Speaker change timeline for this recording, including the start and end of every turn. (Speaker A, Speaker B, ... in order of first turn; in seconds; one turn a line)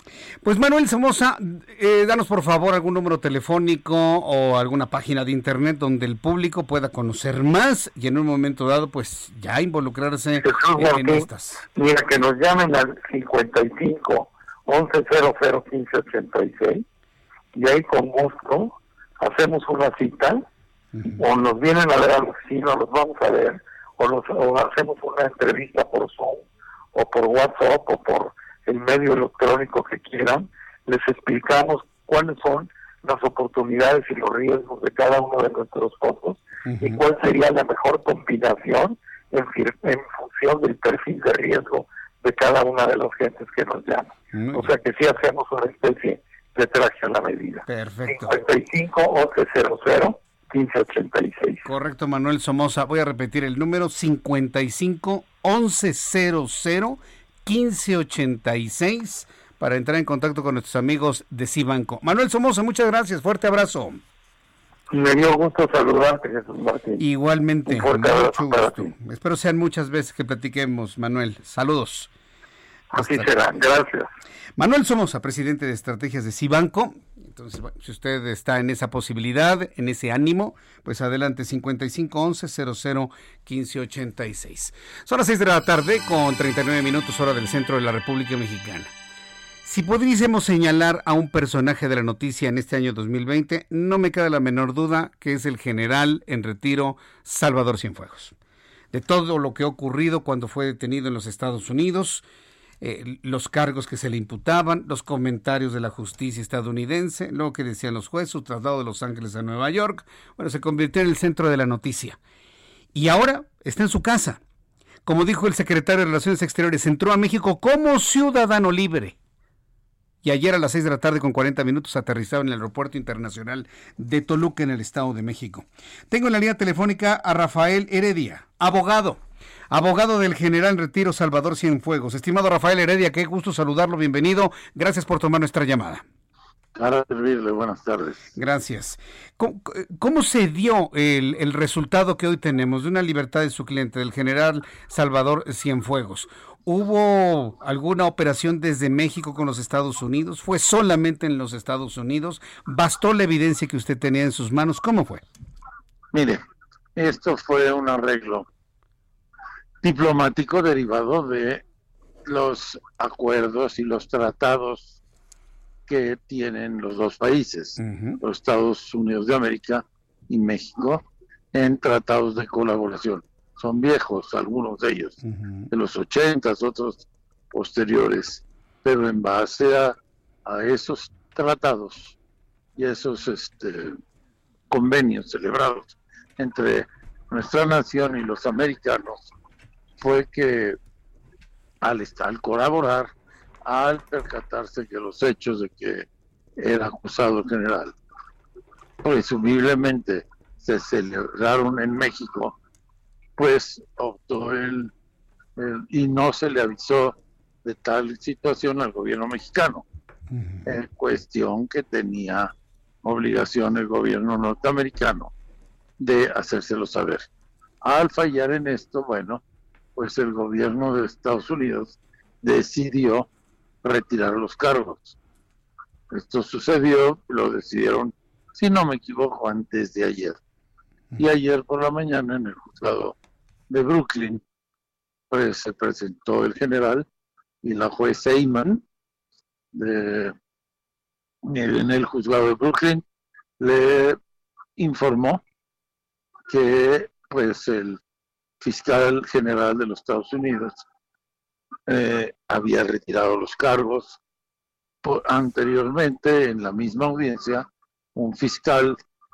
Speaker A: 0.4-11.6
Speaker B: 10.4-16.8
Speaker B: 17.5-20.4
Speaker B: 21.2-26.4
Speaker B: 26.9-51.6
Speaker A: 36.6-37.0
Speaker A: 44.3-44.7
Speaker A: 47.7-48.4
Speaker A: 51.6-64.0
Speaker B: 64.9-67.0
Speaker A: 67.0-72.1
Speaker B: 67.7-68.9
Speaker B: 72.9-74.1
Speaker A: 72.9-73.6
Speaker A: 74.6-88.9
Speaker A: 89.6-98.3
Speaker A: 98.9-102.2
Speaker A: 102.8-112.2
Speaker A: 112.9-114.4
Speaker A: 115.0-119.2
Speaker A: 120.2-136.0
Speaker C: 136.7-138.3
Speaker A: 138.3-155.2
Speaker C: 156.1-156.4
Speaker C: 157.0-158.5
Speaker C: 159.8-161.6
Speaker C: 162.2-165.0
Speaker C: 165.9-175.2
Speaker A: 167.8-168.2
Speaker A: 175.2-175.7
Speaker C: 175.7-179.9
Speaker C: 180.4-182.2
Speaker C: 182.8-183.9
Speaker C: 184.7-189.3
Speaker C: 190.0-190.8
Speaker C: 191.8-193.1
Speaker C: 193.6-196.1
Speaker C: 196.6-197.9
Speaker C: 199.0-202.6
Speaker C: 203.4-204.9
Speaker C: 205.6-209.8
Speaker A: 210.4-210.6
Speaker C: 210.7-212.5
Speaker C: 213.0-215.3
Speaker C: 216.0-217.3
Speaker C: 217.8-219.4
Speaker C: 219.9-223.3
Speaker C: 223.8-225.2
Speaker C: 226.1-230.4
Speaker C: 231.2-233.1
Speaker C: 233.7-234.4
Speaker C: 235.3-237.1
Speaker C: 237.6-238.8
Speaker C: 239.7-240.3
Speaker C: 241.4-243.0
Speaker C: 243.6-244.2
Speaker C: 244.8-245.4
Speaker C: 246.5-248.0
Speaker C: 248.6-250.8
Speaker C: 251.9-254.2
Speaker C: 255.0-259.0